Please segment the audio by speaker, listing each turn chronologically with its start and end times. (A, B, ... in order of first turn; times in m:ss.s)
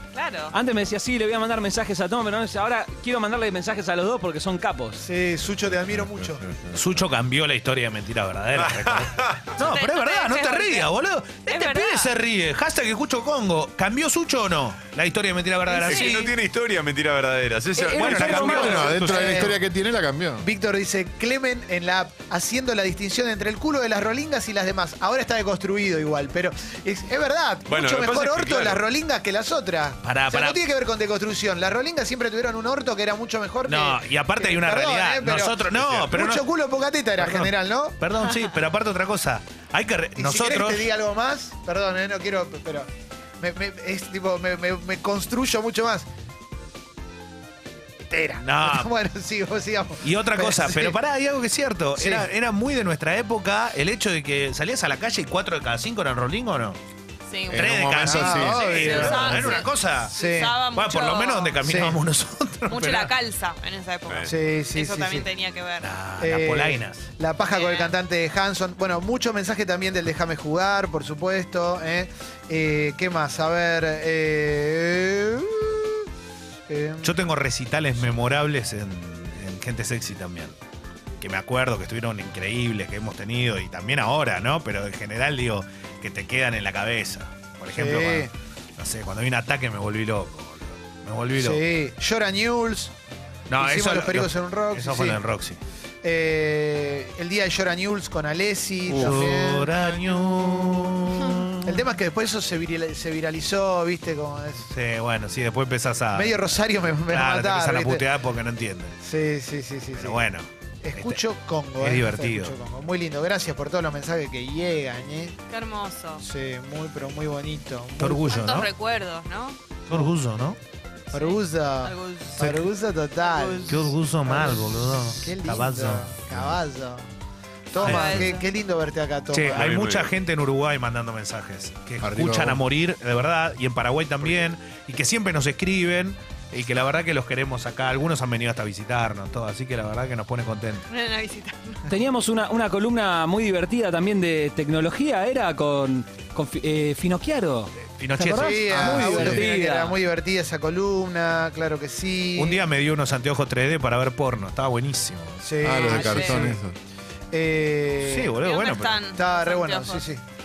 0:00.1-0:00.5 A
0:00.5-0:05.0 B
0:05.0-0:06.4 C
0:06.3-0:06.7 D
0:06.7-0:16.3 E
0:08.5-0:09.5 F
0:09.6-0:10.9 A
0:11.4-0:12.1 A
0:15.7-0:16.3 C
0:15.9-0:19.4 F
0:17.7-0:18.9 B
0:18.0-0:19.3 E
0:18.0-0:19.6 C
0:18.5-0:20.4 D
0:20.4-0:38.0 C
0:27.7-0:28.8 F
0:30.0-0:30.6 E
0:33.6-0:36.5 E
0:37.2-0:40.9 E
0:40.2-0:42.9 C
0:43.4-0:46.0 C
0:48.1-0:51.0 C
0:48.4-0:48.9 E
0:50.0-0:56.8 E
0:52.0-0:52.3 C
0:57.3-1:01.6 A
0:57.5-0:58.6 D
0:57.5-1:00.2 E
0:58.0-1:00.6 C
1:00.7-1:03.1 E
1:01.6-1:02.0 C
1:02.7-1:05.9 A
1:04.2-1:05.3 C
1:05.8-1:07.0 E
1:06.2-1:16.1 C
1:07.5-1:07.9 A
1:16.7-1:17.2 C
1:17.0-1:20.6 E
1:21.2-1:31.6 E
1:27.7-1:28.3 C
1:31.4-1:32.9 C
1:33.5-1:35.6 E
1:33.6-1:35.2 C
1:36.0-1:39.7 C
1:38.9-1:41.8 E
1:41.6-1:44.7 C
1:44.7-1:46.5 E
1:46.1-1:48.1 C
1:47.0-1:49.0 E
1:49.0-1:50.2 C
1:49.9-1:51.2 E
1:50.8-1:55.4 C
1:51.8-1:52.6 E
1:55.5-1:56.2 A
1:56.2-1:58.4 C
1:58.0-1:58.7 E
1:58.2-1:59.6 A
1:59.9-2:00.6 E
2:01.1-2:02.4 A
2:01.1-2:07.1 C
2:02.4-2:02.7 E
2:03.2-2:03.6 A
2:03.6-2:06.1 E
2:06.3-2:06.6 D
2:07.7-2:09.7 C
2:07.8-2:08.3 E
2:07.8-2:08.5 A
2:09.3-2:20.9 E
2:09.5-2:10.1 F
2:12.0-2:12.6 D
2:20.9-2:21.9 A
2:21.9-2:30.0 B
2:27.8-2:29.5 E
2:28.2-2:32.6 C
2:32.4-2:36.2 E
2:35.4-2:36.6 C
2:35.6-2:36.8 D
2:35.8-2:36.4 A
2:37.3-2:38.4 C
2:38.0-2:39.0 E
2:38.4-2:40.0 A
2:39.1-2:40.2 C